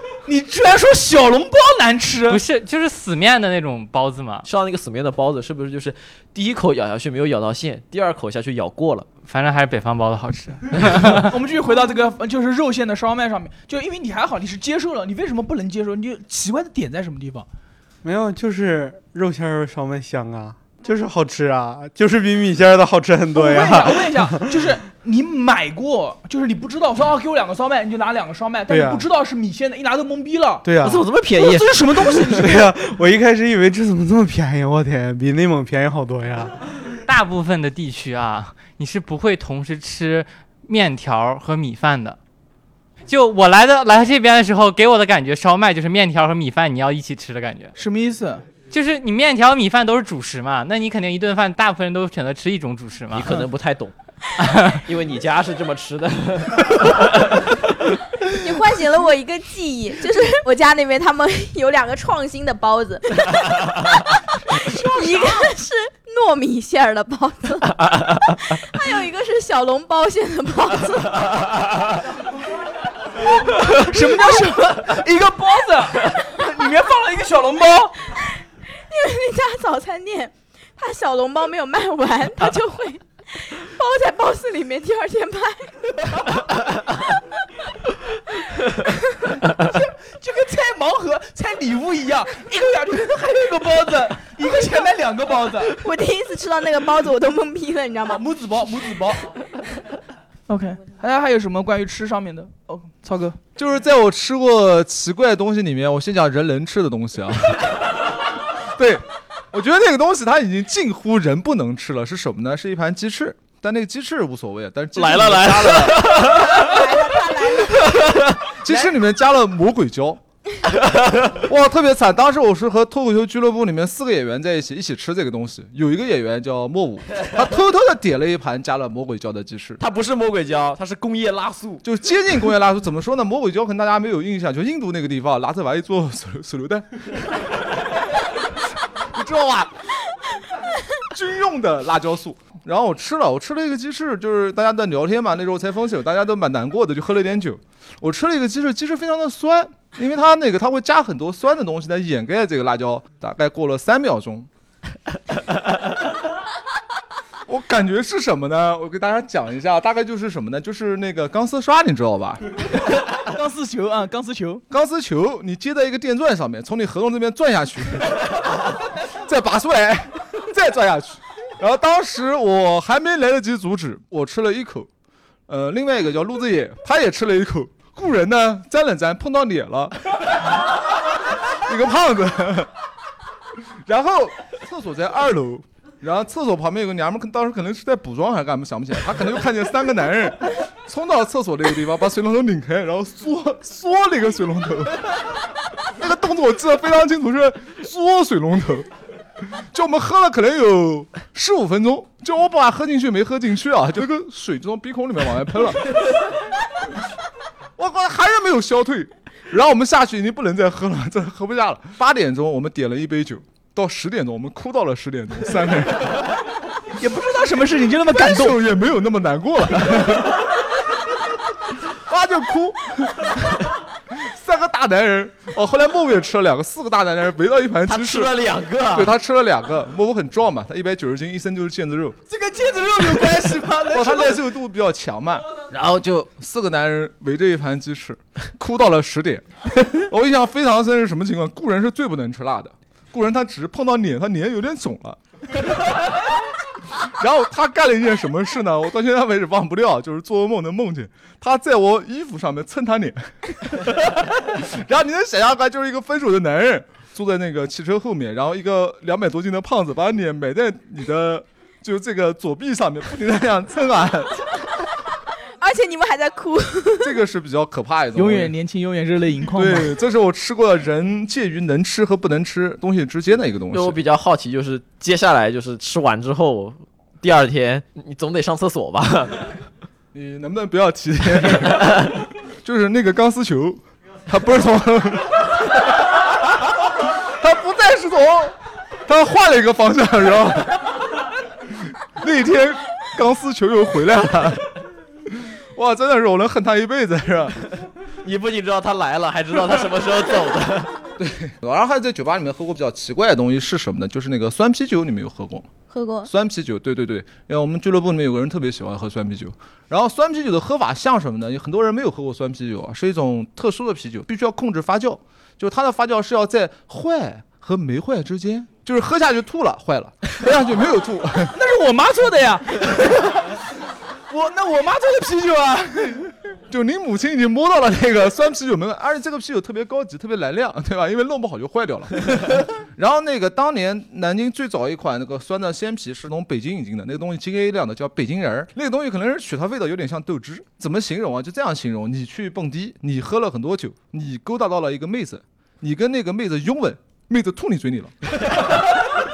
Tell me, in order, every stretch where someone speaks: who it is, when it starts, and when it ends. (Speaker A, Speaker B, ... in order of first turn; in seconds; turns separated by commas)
Speaker A: 0.2-2.4, Speaker B: 2.3-4.5, Speaker C: 4.4-9.1, Speaker B: 9.2-11.3, Speaker A: 11.2-17.5, Speaker D: 18.0-24.6, Speaker A: 23.3-30.7, Speaker D: 28.7-29.1, Speaker D: 30.6-31.0, Speaker C: 30.8-32.5, Speaker A: 31.3-32.7, Speaker D: 32.4-36.6, Speaker B: 37.0-42.2, Speaker B: 43.1-47.7, Speaker A: 47.8-48.5, Speaker B: 48.7-53.3, Speaker C: 53.1-53.9, Speaker B: 54.4-54.8, Speaker C: 54.8-57.6, Speaker E: 58.4-71.5, Speaker A: 64.6-65.5, Speaker A: 73.4-77.9, Speaker E: 78.2-85.9, Speaker A: 89.4-95.7, Speaker E: 95.8-98.2, Speaker A: 98.0-99.3, Speaker A: 100.5-103.4, Speaker F: 103.5-107.7, Speaker F: 108.8-116.2, Speaker C: 115.0-116.8, Speaker E: 116.3-118.0, Speaker C: 117.9-118.3, Speaker F: 118.6-120.2, Speaker C: 120.7-121.4, Speaker F: 121.4-129.8, Speaker C: 129.8-131.8, Speaker F: 131.8-137.3, Speaker F: 139.1-139.7, Speaker F: 141.1-154.5, Speaker F: 157.5-162.4, Speaker A: 163.1-164.6, Speaker F: 164.7-168.3, Speaker F: 169.2-174.9, Speaker F: 175.5-180.6, Speaker F: 181.6-182.7, Speaker F: 183.8-195.3, Speaker F: 195.9-198.9, Speaker F: 199.5-205.9, Speaker F: 207.8-216.3, Speaker A: 216.9-218.6, Speaker F: 218.2-220.4, Speaker F: 222.1-223.5, Speaker F: 224.1-228.3, Speaker C: 227.9-229.1, Speaker F: 228.9-232.2, Speaker A: 232.3-234.4, Speaker F: 233.9-246.2, Speaker F: 247.0-264.5, Speaker E: 265.4-267.1, Speaker F: 267.0-268.5, Speaker A: 268.1-270.0, Speaker F: 269.5-274.0, Speaker C: 273.7-279.6, Speaker F: 280.1-286.1, Speaker F: 286.8-288.6, Speaker F: 289.1-291.0, Speaker F: 292.2-294.7, Speaker F: 295.3-297.7, Speaker C: 298.2-301.0, Speaker F: 301.2-305.7, Speaker E: 305.9-306.3, Speaker F: 306.3-321.6, Speaker A: 321.5-323.7, Speaker A: 324.3-326.3, Speaker F: 326.7-348.7